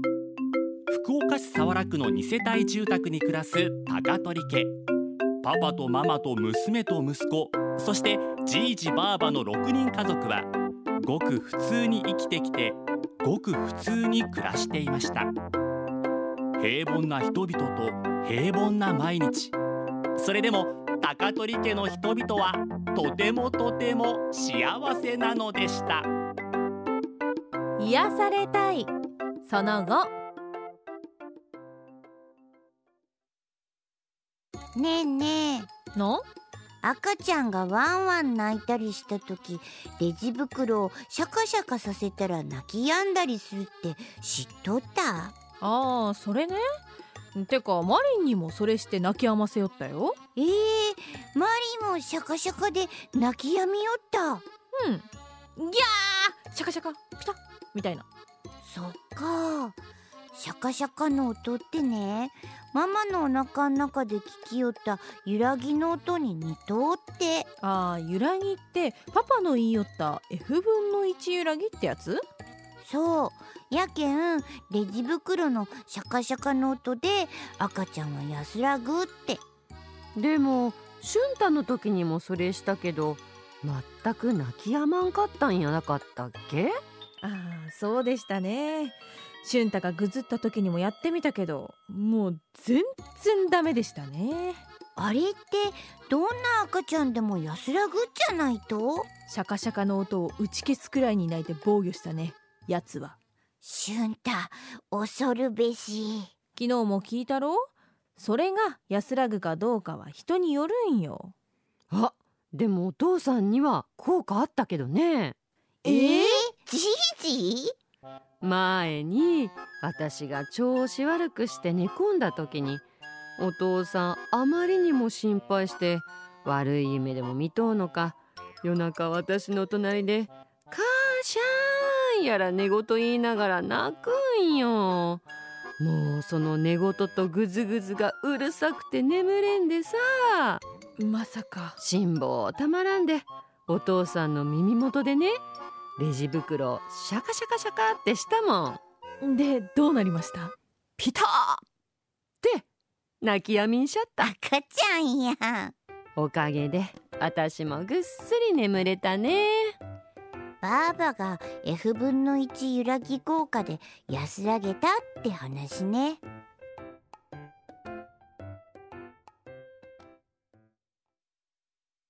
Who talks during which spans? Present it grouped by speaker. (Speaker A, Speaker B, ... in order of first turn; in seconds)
Speaker A: 0.9-4.8, 5.4-10.5, 11.0-15.3, 16.6-19.5, 20.2-26.1
Speaker B: 27.8-30.1, 35.9-36.2, 45.6-46.6, 47.3-50.2, 54.8-58.0, 67.6-72.2, 87.2-94.6, 99.3-103.2, 106.5-111.3, 115.8-116.4, 141.0-141.8, 149.2-150.5
Speaker C: 34.8-35.7, 36.8-45.3, 50.4-54.4, 58.6-59.8, 60.3-67.5, 72.8-79.4, 95.0-99.1, 103.6-106.3, 115.8-117.7, 154.2-155.7, 160.6-166.2
Speaker D: 80.2-86.8, 111.9-115.3, 118.4-122.8, 123.4-135.2, 135.8-140.6, 141.8-145.4, 146.0-148.8, 151.0-151.6, 153.2-154.3, 156.2-159.8